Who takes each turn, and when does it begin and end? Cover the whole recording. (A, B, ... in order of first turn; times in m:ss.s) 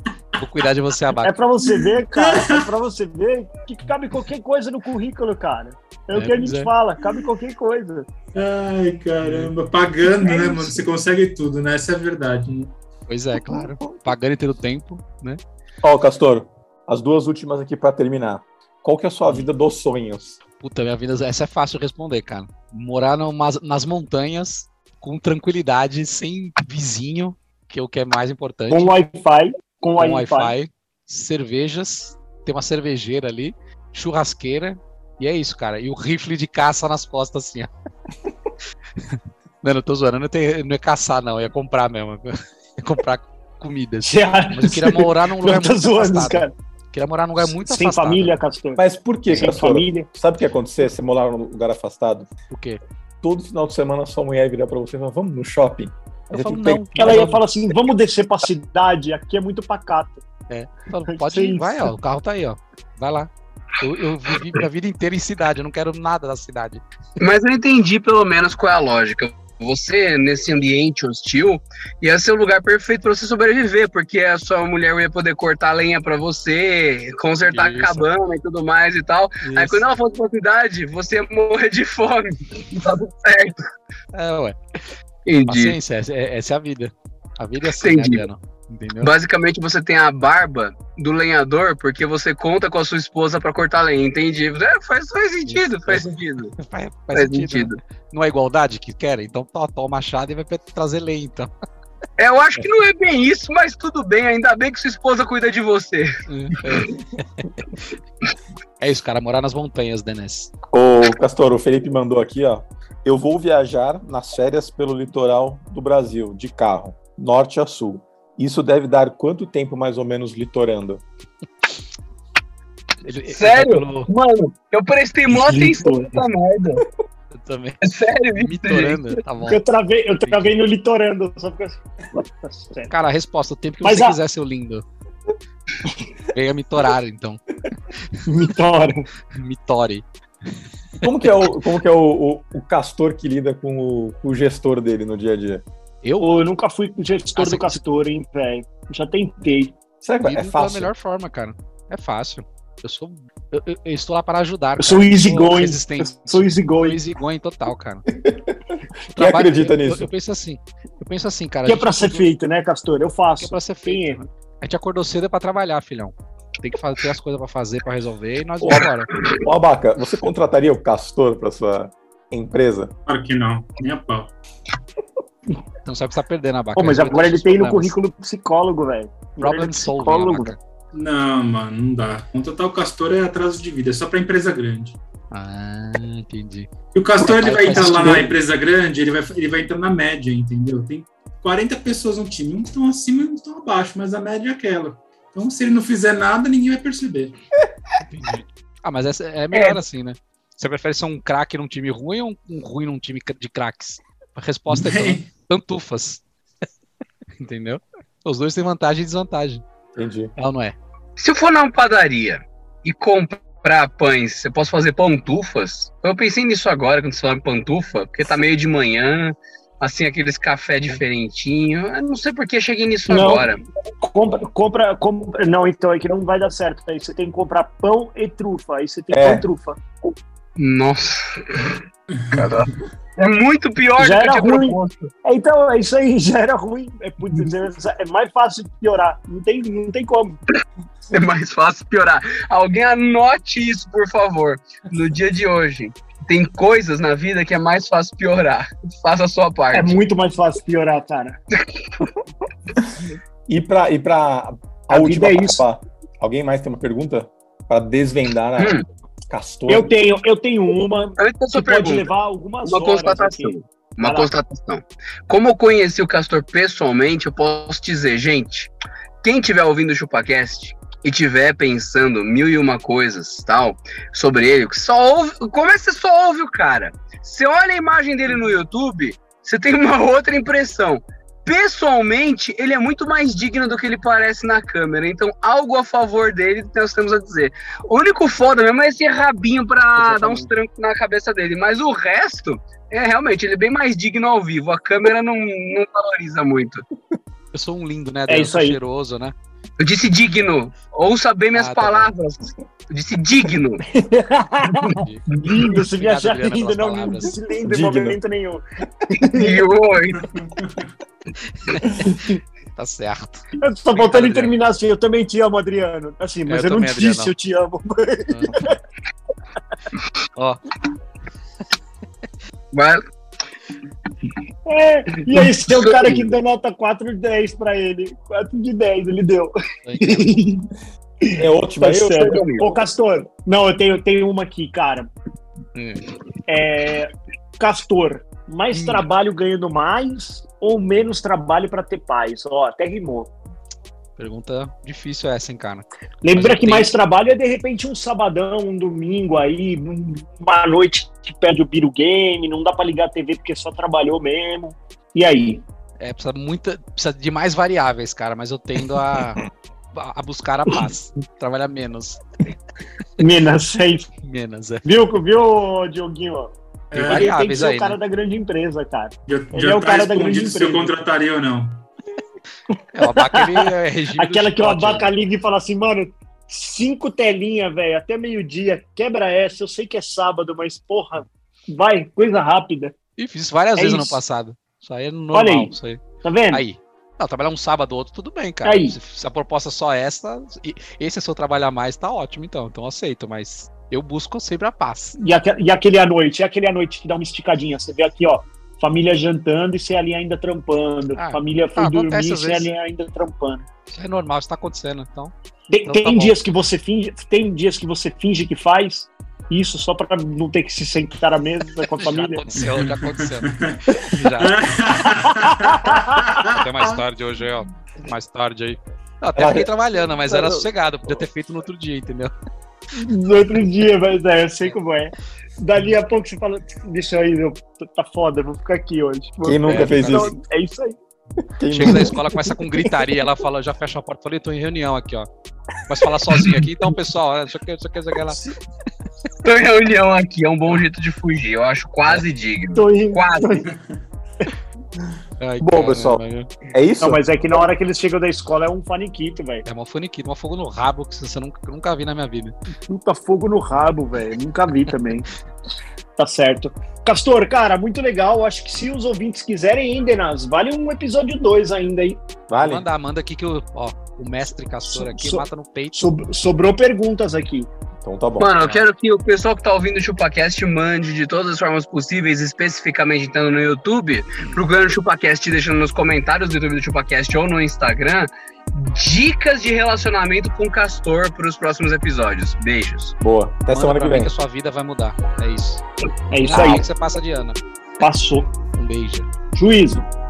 0:00.4-0:01.3 A
0:01.2-0:08.1 B
0:02.1-0:02.7 C
0:06.1-0:06.7 A
0:08.3-0:12.7 C
0:09.2-0:09.5 A
0:10.2-0:10.8 B
0:13.1-0:15.4 A
0:13.4-0:13.7 D
0:15.8-0:20.4 D
0:20.6-0:28.9 A
0:28.7-0:30.5 B
0:30.0-0:37.7 A
0:39.0-0:48.4 A
0:44.0-0:46.6 B
0:47.4-0:50.1 B
0:48.8-0:52.3 D
0:52.5-0:52.8 A
0:53.2-0:57.4 D
0:56.3-0:57.4 A
0:57.0-1:00.2 B
1:00.5-1:06.8 A
1:01.1-1:01.9 B
1:07.2-1:23.6 E
1:17.4-1:18.1 A
1:19.4-1:19.8 A
1:24.1-1:24.8 A
1:25.3-1:25.8 E
1:25.4-1:29.1 A
1:27.8-1:28.2 E
1:29.0-1:36.6 E
1:35.4-1:41.5 A
1:37.1-1:37.8 E
1:42.2-1:46.2 E
1:46.3-1:47.5 A
1:48.8-1:50.5 A
1:50.7-2:01.0 D
2:03.0-2:04.1 A
2:03.3-2:06.9 E
2:05.3-2:06.2 B
2:07.3-2:07.8 A
2:07.8-2:09.0 E
2:08.3-2:09.6 A
2:09.5-2:12.9 B
2:10.2-2:10.6 A
2:12.9-2:14.8 A
2:13.8-2:14.2 B
2:16.3-2:17.4 A
2:18.3-2:19.1 B
2:19.3-2:20.0 A
2:21.0-2:25.6 D
2:26.0-2:26.3 A
2:26.2-2:29.8 B
2:27.4-2:27.8 A
2:30.0-2:30.9 D
2:30.2-2:38.0 A
2:34.8-2:37.0 B
2:38.1-2:40.1 D
2:39.1-2:42.3 A
2:41.6-2:44.2 B
2:43.4-2:49.1 A
2:48.6-2:52.9 D
2:53.1-2:54.3 C
2:55.8-2:57.9 A
2:56.8-3:00.5 B
2:59.4-3:00.6 A
3:00.9-3:05.0 C
3:05.3-3:08.3 A
3:06.9-3:17.3 C
3:07.8-3:08.1 B
3:18.0-3:26.2 A
3:19.5-3:19.8 B
3:24.7-3:25.3 C
3:27.4-3:29.6 A
3:30.0-3:30.3 D
3:30.4-3:30.8 A
3:31.2-3:43.6 E
3:43.1-3:49.8 B
3:49.1-3:49.5 D
3:50.6-3:55.1 E
3:52.1-3:52.6 C
3:54.0-4:00.4 B
4:01.1-4:10.0 E
4:09.7-4:11.4 B
4:13.5-4:19.9 D
4:14.9-4:15.6 B
4:18.6-4:18.8 E
4:19.7-4:24.3 B
4:21.2-4:22.1 E
4:22.6-4:28.7 E
4:29.2-4:56.8 E
4:50.0-4:50.5 B
4:57.5-4:59.3 A
4:58.3-4:58.8 B
4:59.8-5:03.8 E
5:01.5-5:02.1 A
5:03.9-5:09.6 B
5:04.9-5:07.3 A
5:07.6-5:08.2 D
5:09.3-5:10.3 E
5:10.2-5:10.8 C
5:11.6-5:12.2 A
5:12.0-5:12.4 B
5:12.7-5:14.6 A
5:13.6-5:18.8 B
5:16.5-5:17.3 A
5:18.3-5:18.6 A
5:20.4-5:20.6 A
5:22.7-5:23.0 E
5:24.6-5:30.7 B
5:25.3-5:26.3 E
5:29.9-5:30.4 A
5:31.2-5:35.1 B
5:31.3-5:32.7 D
5:32.2-5:32.6 E
5:35.7-5:36.1 A
5:36.5-5:43.3 B
5:38.7-5:39.0 A
5:44.2-5:46.9 A
5:46.2-5:55.6 B
5:56.0-5:59.4 A
5:59.9-6:02.2 A
6:03.2-6:04.1 B
6:04.2-6:05.0 A
6:04.8-6:11.0 B
6:06.9-6:08.0 A
6:06.9-6:07.4 C
6:09.3-6:11.8 C
6:12.9-6:15.1 A
6:13.0-6:23.0 B
6:23.2-6:35.2 A
6:23.8-6:24.2 B
6:25.3-6:26.6 B
6:28.6-6:29.0 B
6:35.2-6:43.6 B
6:41.1-6:42.7 A
6:43.9-6:45.3 A
6:45.7-6:52.4 B
6:45.8-6:46.4 A
6:51.9-6:54.8 A
6:52.6-6:57.0 C
6:55.5-6:56.2 B
6:56.5-7:02.3 A
6:59.4-6:59.7 D
7:02.9-7:11.0 B
7:09.4-7:10.4 D
7:09.6-7:10.3 A
7:11.6-7:12.9 D
7:11.7-7:15.3 A
7:15.9-7:18.4 A
7:19.4-7:23.6 E
7:22.7-7:23.7 B
7:23.7-7:24.0 C
7:25.4-7:26.5 A
7:25.6-7:27.2 D
7:27.0-7:29.6 B
7:29.6-7:32.5 A
7:32.9-7:35.3 B
7:36.2-7:42.3 B
7:42.5-7:42.8 D
7:42.6-7:46.1 A
7:44.9-7:47.7 B
7:48.0-7:48.5 D
7:48.4-8:03.1 E
7:48.6-7:48.8 A
8:03.2-8:04.3 D
8:03.7-8:05.8 A
8:06.3-8:06.9 B
8:06.4-8:07.6 A
8:08.0-8:08.5 B
8:08.7-8:09.3 A
8:09.5-8:10.0 B